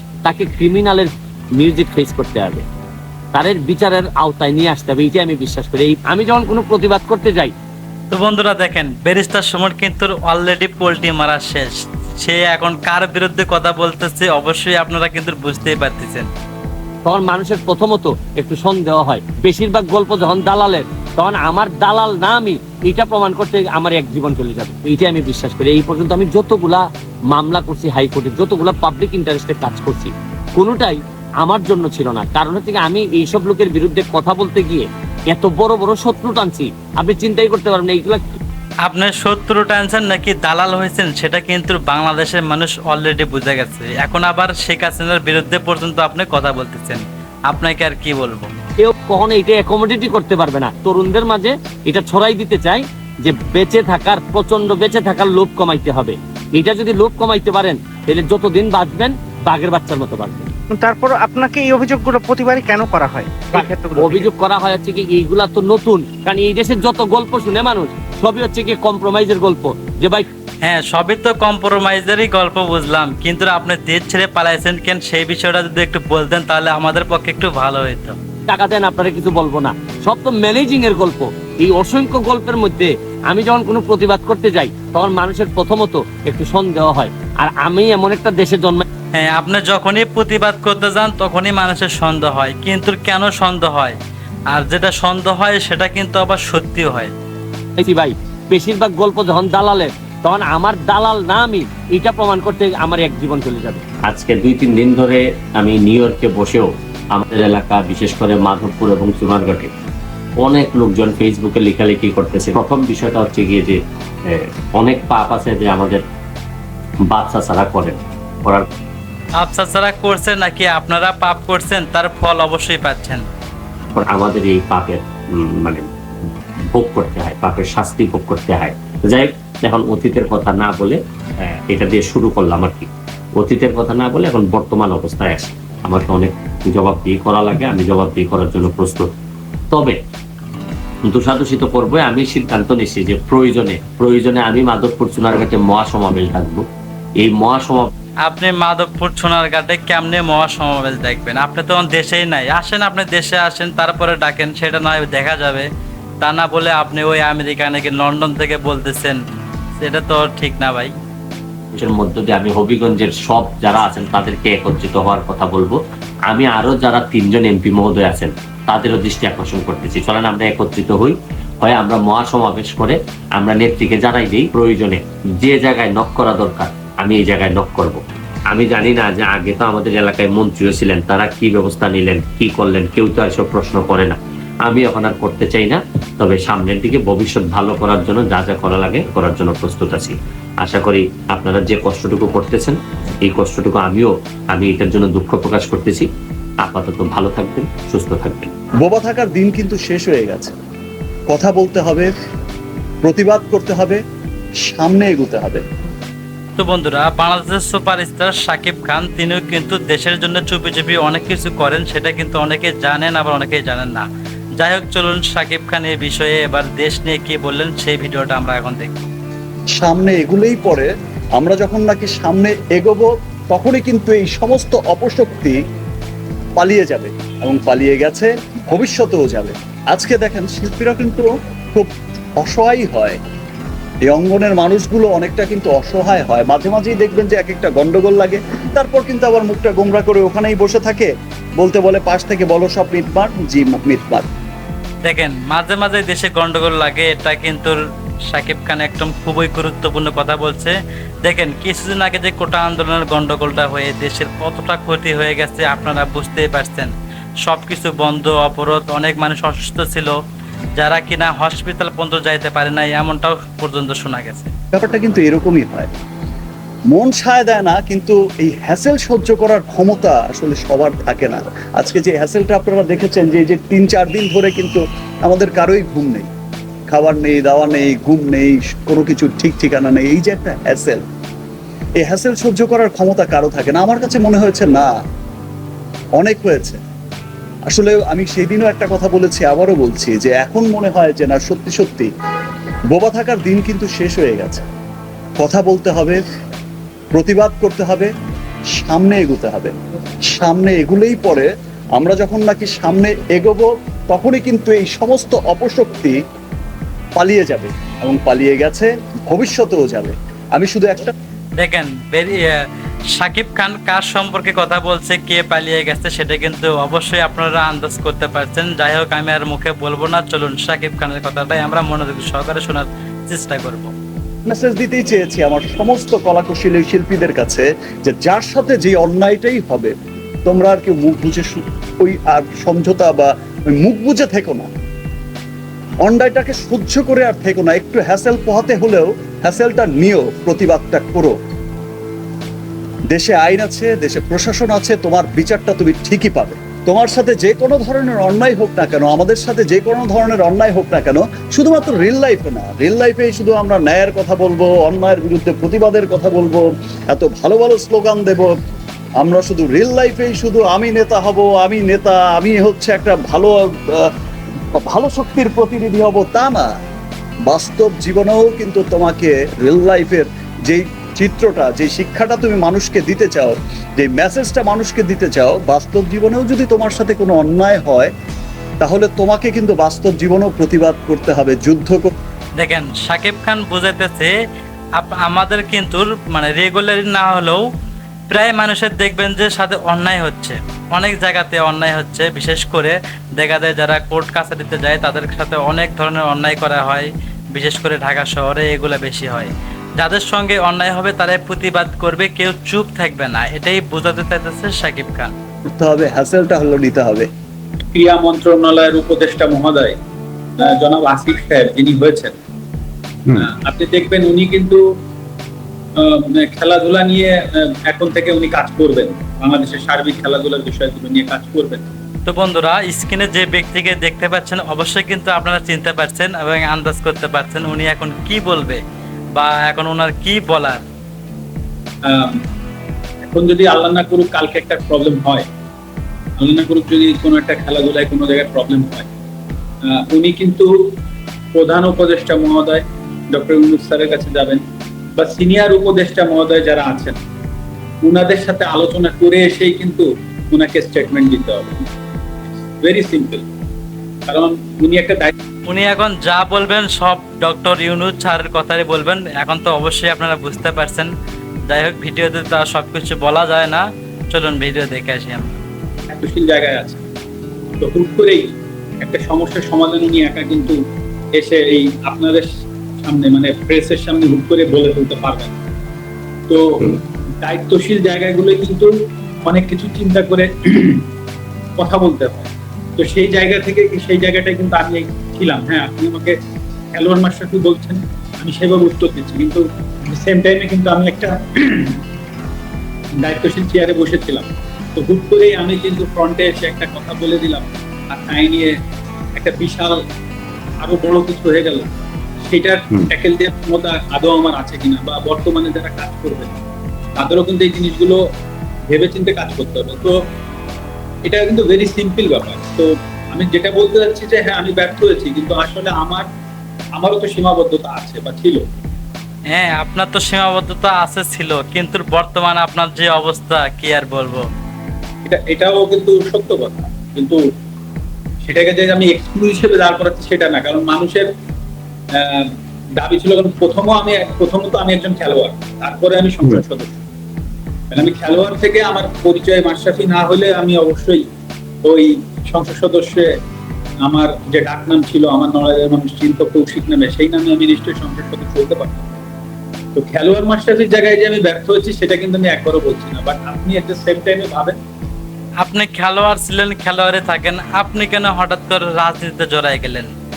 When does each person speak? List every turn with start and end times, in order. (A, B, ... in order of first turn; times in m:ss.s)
0:00.2-0:02.6 A
0:03.3-0:07.5 A
0:08.1-0:16.3 B
0:17.0-0:38.2 A
0:38.9-0:48.5 B
0:48.8-1:00.5 A
1:00.7-1:04.3 C
1:03.5-1:10.3 A
1:10.6-1:18.2 B
1:18.5-1:28.8 A
1:29.1-1:34.0 B
1:34.5-1:37.1 B
1:37.8-1:49.7 A
1:50.4-1:53.8 A
1:54.8-1:56.0 A
1:57.1-1:58.6 A
1:59.4-2:03.2 B
2:04.0-2:05.8 A
2:06.7-2:12.9 A
2:13.4-2:19.0 A
2:21.1-2:26.6 A
2:27.2-2:27.9 A
2:28.2-2:35.7 B
2:36.2-2:39.2 B
2:39.8-2:40.9 B
2:41.7-2:45.8 A
2:46.3-2:58.0 A
2:58.5-3:12.8 A
3:13.3-3:16.0 A
3:16.6-3:18.5 A
3:18.8-3:20.5 D
3:21.3-3:22.1 D
3:23.0-3:24.0 D
3:24.6-3:25.6 D
3:26.6-3:34.1 B
3:34.6-3:39.0 B
3:39.8-3:45.6 D
3:46.6-3:53.2 D
3:54.1-4:04.3 D
4:05.0-4:07.8 B
4:08.3-4:16.9 B
4:17.4-4:20.1 B
4:20.8-4:24.5 B
4:24.7-4:25.9 D
4:26.9-4:36.3 D
4:36.9-4:41.0 D
4:42.0-4:44.9 D
4:46.2-4:46.8 D
4:47.7-4:52.1 D
4:52.9-4:54.6 D
4:55.4-4:56.2 D
4:57.1-4:58.1 D
4:58.8-4:59.7 D
5:00.3-5:06.2 D
5:07.2-5:11.1 D
5:11.6-5:12.6 B
5:13.2-5:23.9 B
5:24.5-5:29.9 D
5:30.4-5:34.7 D
5:36.0-5:41.4 D
5:43.1-5:58.5 D
5:59.2-6:04.1 D
6:04.8-6:06.7 D
6:07.5-6:18.1 D
6:18.8-6:22.1 D
6:22.6-6:24.3 B
6:25.0-6:27.6 B
6:28.3-6:45.3 B
6:45.8-6:47.3 D
6:47.9-6:50.0 E
6:50.6-6:52.4 E
6:53.4-6:54.8 E
6:56.0-7:01.9 E
7:02.3-7:08.8 B
7:09.4-7:10.8 B
7:12.0-7:12.4 E
7:13.2-7:15.5 E
7:16.4-7:19.1 E
7:19.8-7:20.9 E
7:21.5-7:24.6 E
7:25.2-7:27.2 E
7:28.0-7:31.9 E
7:32.8-7:33.5 E
7:34.3-7:35.3 E
7:35.7-7:41.1 B
7:41.7-7:45.6 B
7:46.1-7:47.0 E
7:47.8-7:50.8 E
7:51.3-7:55.6 E
7:56.5-7:56.9 E
7:57.4-8:01.0 E
8:01.8-8:06.4 E
8:06.9-8:12.0 E
8:13.2-8:18.8 E
8:19.4-8:20.0 E
8:20.8-8:21.9 E
8:22.4-8:26.6 E
8:27.2-8:28.2 E
8:28.9-8:30.2 E
8:31.2-8:36.3 E
8:37.0-8:38.7 E
8:39.5-8:44.4 B
8:45.2-8:47.4 E
8:48.4-8:51.3 E
8:52.1-8:57.0 E
8:57.9-9:01.3 E
9:01.8-9:03.3 E
9:04.0-9:09.1 E
9:10.0-9:14.8 E
9:15.6-9:20.1 B